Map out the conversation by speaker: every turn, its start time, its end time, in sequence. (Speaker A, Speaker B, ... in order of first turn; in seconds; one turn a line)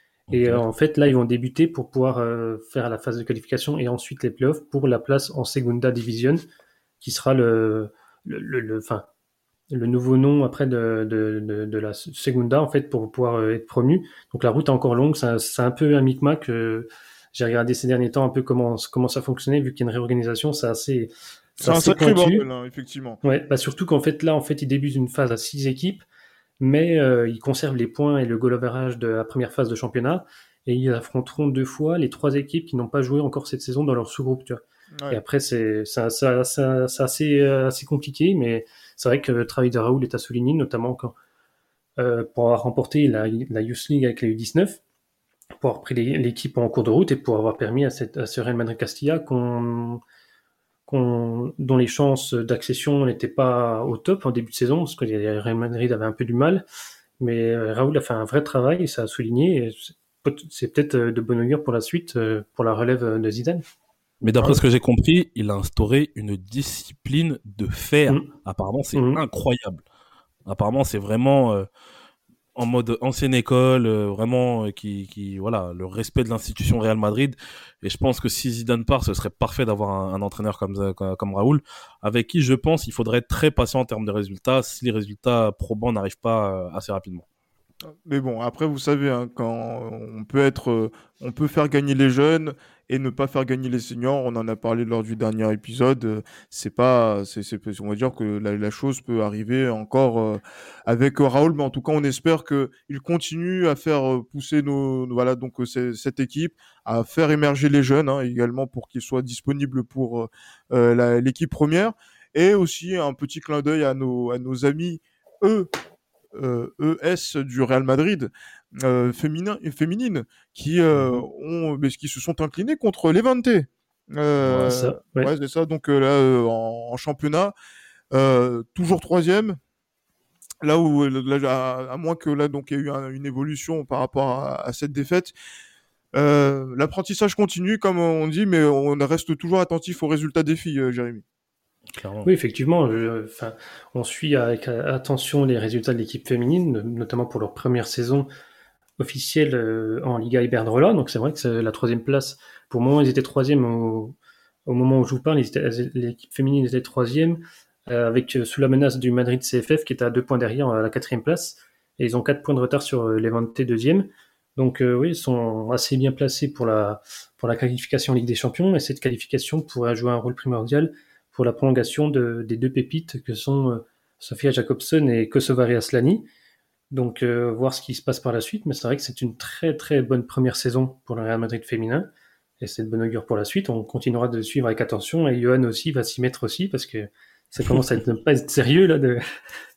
Speaker A: 0.3-0.6
Speaker B: 0.3-6.4
Speaker B: 7.0-9.1
Speaker B: 9.7-22.4
Speaker C: 21.6-23.2
Speaker B: 23.2-26.0
Speaker B: 26.6-41.1
Speaker B: 42.0-44.8
Speaker B: 45.6-50.0
Speaker B: 50.9-56.6
Speaker B: 57.2-63.6
Speaker A: 64.2-69.8
Speaker B: 68.9-69.2
Speaker A: 70.5-71.7
Speaker A: 72.5-87.2
Speaker C: 87.8-115.7
Speaker C: 116.3-127.5
Speaker A: 120.9-121.2
Speaker A: 124.4-124.7
Speaker B: 124.7-125.3
Speaker C: 128.1-129.6
Speaker C: 130.6-135.3
Speaker C: 136.1-141.2
Speaker A: 141.9-142.3
Speaker B: 142.2-148.3
Speaker B: 149.0-154.2
Speaker B: 154.7-176.2
Speaker B: 176.9-182.1
Speaker B: 182.6-189.2